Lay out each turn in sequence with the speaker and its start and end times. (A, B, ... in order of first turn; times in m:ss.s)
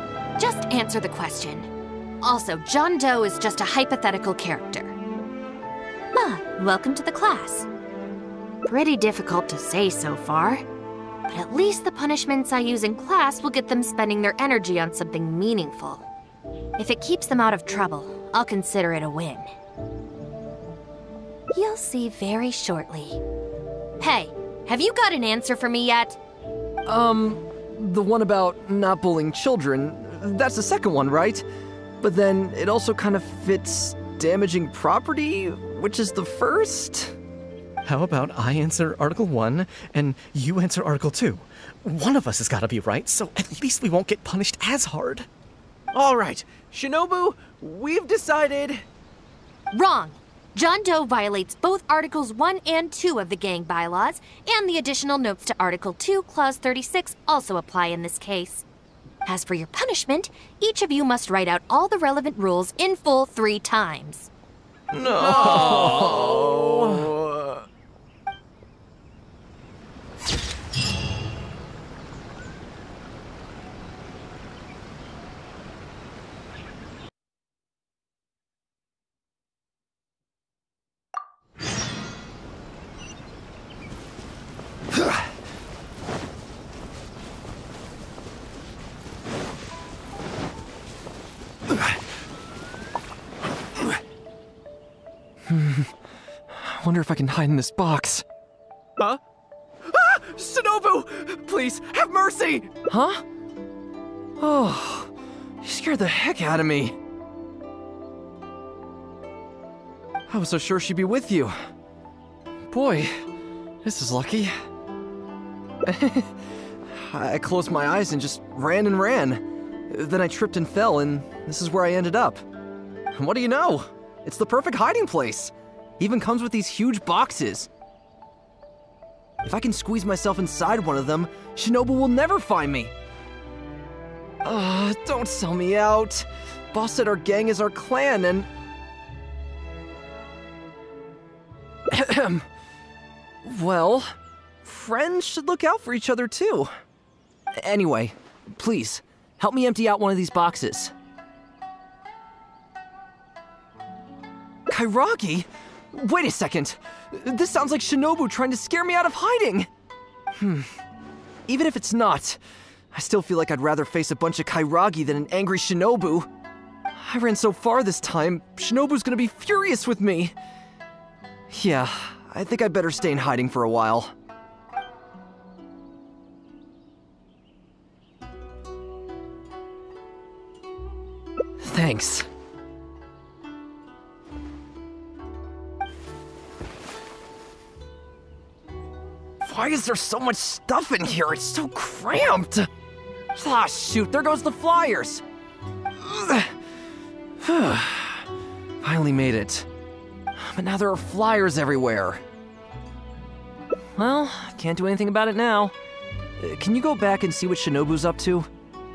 0:00.4-0:01.7 A
0:02.2-0:05.0 A
0:06.1-0:07.7 A
0:08.6-0:10.6 A
0:11.3-0:16.0 A
0:16.8-0:19.5 A
0:21.5-0:23.2 A
0:24.0-0:26.2 A
0:26.8-0:31.4 B
0:32.0-0:37.1 B
0:37.8-0:45.3 C
0:45.9-0:48.8 D
0:49.7-0:58.6 A
0:59.2-1:04.3 A
1:04.9-1:07.6 B
1:05.2-1:07.0 C
1:35.5-1:35.9 B
1:36.5-1:38.2 B
1:39.8-1:43.2 B
1:44.4-1:45.1 B
1:45.6-1:46.9 B
1:50.3-1:51.6 B
1:52.7-1:53.2 B
1:53.8-1:54.5 B
1:55.8-1:56.4 B
1:56.9-2:02.4 B
2:03.1-2:07.7 B
2:09.4-2:12.9 B
2:14.4-2:18.5 B
2:21.9-2:22.4 B
2:23.4-2:24.1 B
2:24.6-2:26.7 B
2:27.6-2:30.9 B
2:34.7-2:39.7 B
2:40.4-2:40.7 B
2:41.5-2:42.4 B
2:42.9-2:46.3 B
2:47.0-2:50.3 B
2:51.5-2:54.1 B
3:01.6-3:02.2 B
3:09.4-3:12.7 B
3:13.3-3:15.2 B
3:16.0-3:16.5 B
3:17.4-3:18.2 B
3:18.8-3:19.7 B
3:20.4-3:22.2 B
3:24.0-3:25.7 B
3:26.4-3:28.5 B